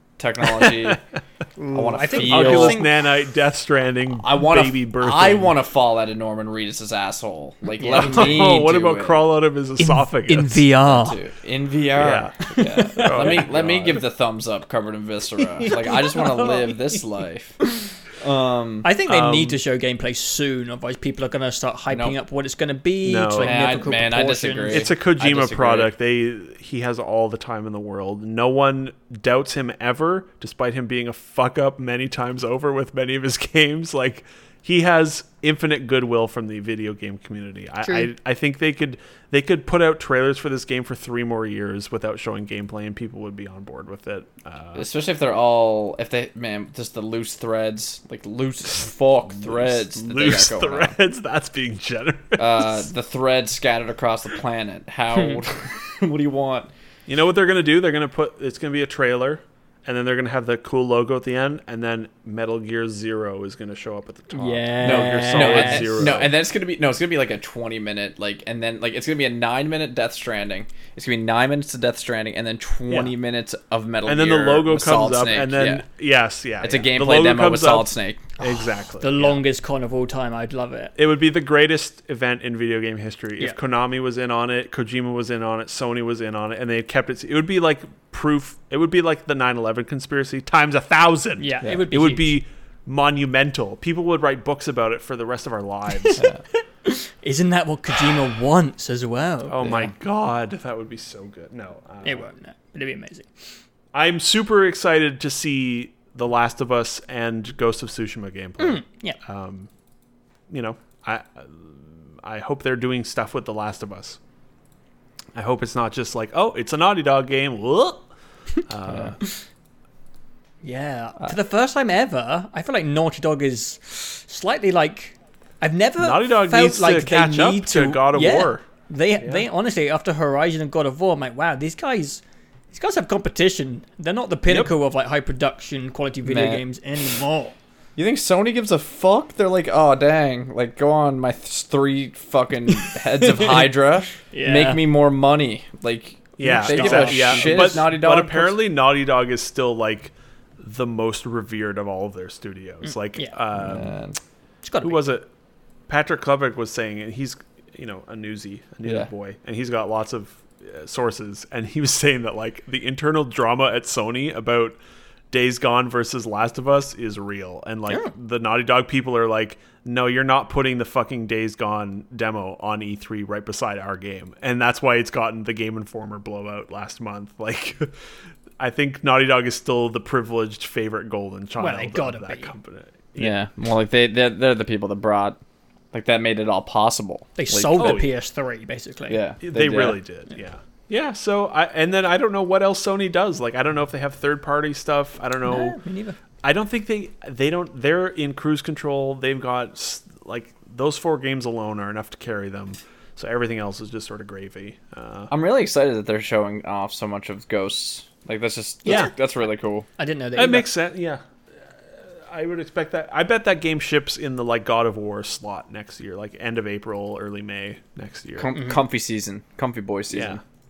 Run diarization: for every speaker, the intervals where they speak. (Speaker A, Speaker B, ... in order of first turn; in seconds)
Speaker A: 0.2-1.0, 1.7-2.8, 4.2-9.2, 10.8-18.9, 23.4-25.9, 44.8-51.0, 52.4-56.7, 64.8-75.9, 76.6-78.2, 118.9-119.1, 136.2-136.6, 137.9-148.6, 153.5-154.2, 158.8-159.1, 183.2-185.4, 185.9-188.1, 189.1-190.0, 205.3-209.9, 218.4-220.4
Speaker B: 0.6-0.9, 2.1-5.5, 7.9-10.7, 11.9-14.1, 19.1-19.6, 23.0-23.6, 24.7-44.9, 49.4-52.7, 57.1-66.4, 72.9-73.1, 74.0-79.4, 81.0-96.2, 99.5-102.3, 103.9-109.7, 110.5-114.2, 115.3-118.1, 118.6-119.2, 126.0-128.7, 146.4-153.9, 154.8-155.3, 155.9-164.8, 165.3-177.9, 178.6-183.4, 187.8-188.1, 189.4-195.8, 196.4-205.3, 210.3-218.6, 220.1-220.4
Speaker C: 1.6-2.9, 7.8-8.5, 9.8-11.2, 12.6-13.4, 15.6-16.7, 18.8-24.9, 37.8-38.1, 64.3-66.2, 78.4-80.9, 91.4-92.4, 96.8-99.9, 102.0-103.3, 108.6-109.2, 120.6-137.6, 144.3-144.8, 146.4-147.8, 154.6-155.0, 181.6-182.5, 187.4-189.2, 195.4-196.2, 208.8-209.1, 210.0-210.7, 218.5-218.8